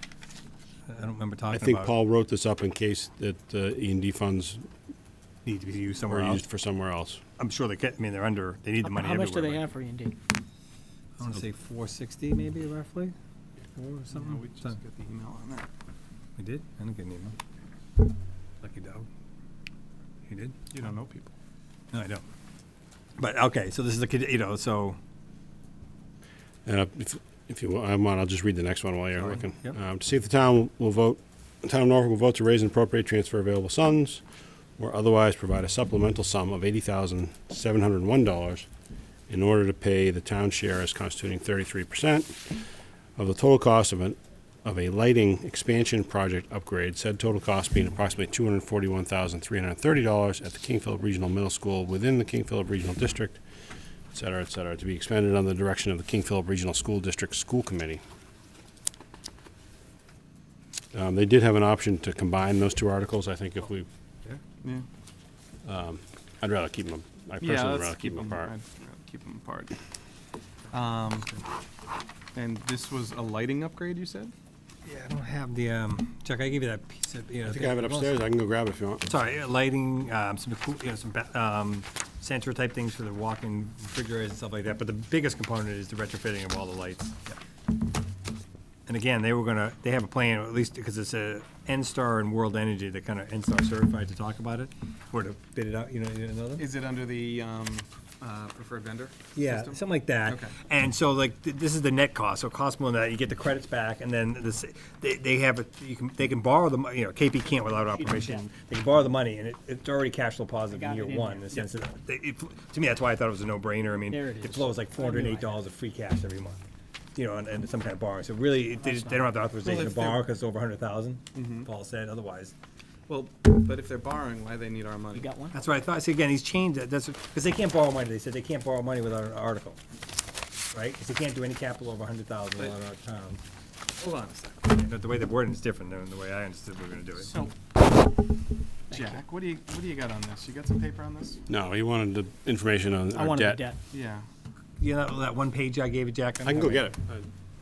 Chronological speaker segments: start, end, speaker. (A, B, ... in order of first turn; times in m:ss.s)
0:00.9-0:01.9 A
0:01.5-0:04.7 B
0:05.4-0:06.4 A
0:06.1-0:07.2 B
0:07.4-0:09.7 A
0:08.8-0:10.2 C
0:11.2-0:13.1 A
0:13.7-0:14.8 A
0:14.1-0:15.7 D
0:16.4-0:17.4 A
0:18.6-0:19.1 A
0:20.3-0:20.7 A
0:20.7-0:21.3 D
0:21.9-0:22.2 A
0:23.2-0:25.0 A
0:26.6-0:34.2 B
0:29.4-0:29.8 A
0:34.8-0:38.7 B
0:39.3-0:42.6 B
0:43.2-0:53.4 B
0:54.1-0:58.0 B
1:00.9-1:03.9 B
1:05.6-1:08.5 B
1:07.4-1:09.8 D
1:10.7-1:11.4 D
1:12.3-1:14.3 D
1:14.8-1:18.2 A
1:17.4-1:19.1 B
1:19.1-1:27.4 A
1:28.9-1:36.6 A
1:36.6-1:40.6 D
1:39.4-1:56.6 A
1:47.8-1:48.4 C
1:50.7-1:51.7 C
1:54.1-1:55.5 C
1:57.2-2:02.5 A
1:58.7-1:59.5 C
1:59.6-2:00.3 D
2:01.4-2:01.7 D
2:03.1-2:05.3 D
2:05.1-2:05.6 C
2:05.5-2:09.8 A
2:10.7-2:13.4 A
2:14.0-2:14.6 D
2:14.6-2:17.3 A
2:17.2-2:17.5 D
2:18.9-2:21.4 D
2:21.5-2:23.6 B
2:23.1-2:23.8 C
2:23.9-2:24.3 D
2:24.8-2:26.9 A
2:26.4-2:27.3 B